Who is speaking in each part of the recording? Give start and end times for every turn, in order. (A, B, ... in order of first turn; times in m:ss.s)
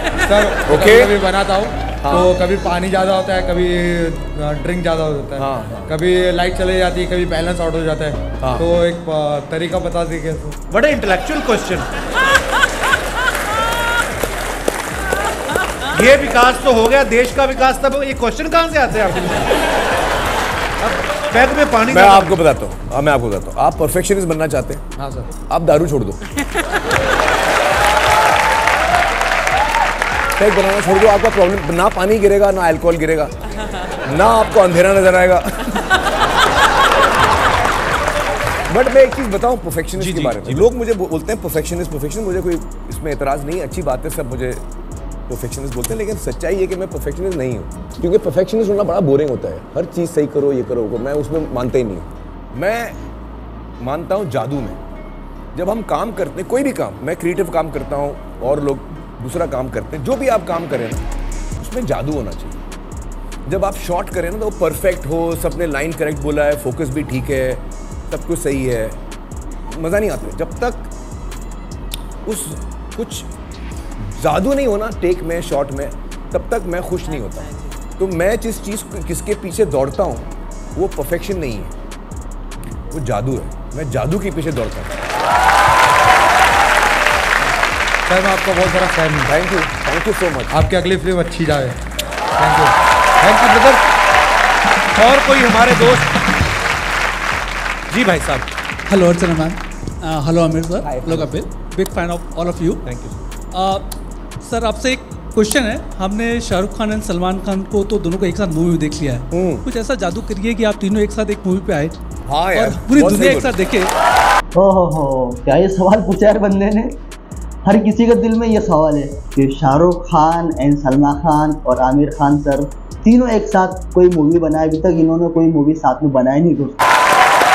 0:00.2-0:10.6 A
0:00.7-0:01.1 B
0:02.0-0:02.3 B
0:05.4-0:05.9 B
0:08.4-0:08.7 B
0:10.7-0:11.9 C
0:15.9-0:19.5 C
0:20.8-0:22.3 C
0:21.9-0:24.8 B
0:25.0-0:25.3 A
0:25.5-0:26.2 B
0:30.4-0:33.3 B
0:34.0-0:36.0 B
0:38.6-0:44.6 B
0:40.0-0:40.7 C
0:45.3-0:53.0 B
0:53.8-0:54.8 B
0:55.6-1:01.0 B
1:01.6-1:02.6 B
1:03.5-1:09.0 B
1:09.7-1:10.9 B
1:12.3-1:13.3 B
1:14.0-1:21.7 B
1:22.9-1:25.0 B
1:28.1-1:29.3 A
1:29.3-1:30.6 B
1:30.5-1:31.8 A
1:32.4-1:32.8 A
1:33.2-1:33.8 C
1:35.0-1:36.1 C
1:37.9-1:38.5 C
1:38.9-1:42.8 D
1:40.8-1:41.3 B
1:42.9-1:43.2 C
1:43.5-1:52.0 D
1:49.3-1:49.6 B
1:52.3-1:53.6 B
1:52.5-1:53.9 D
1:54.6-1:56.9 E
1:57.7-2:06.8 E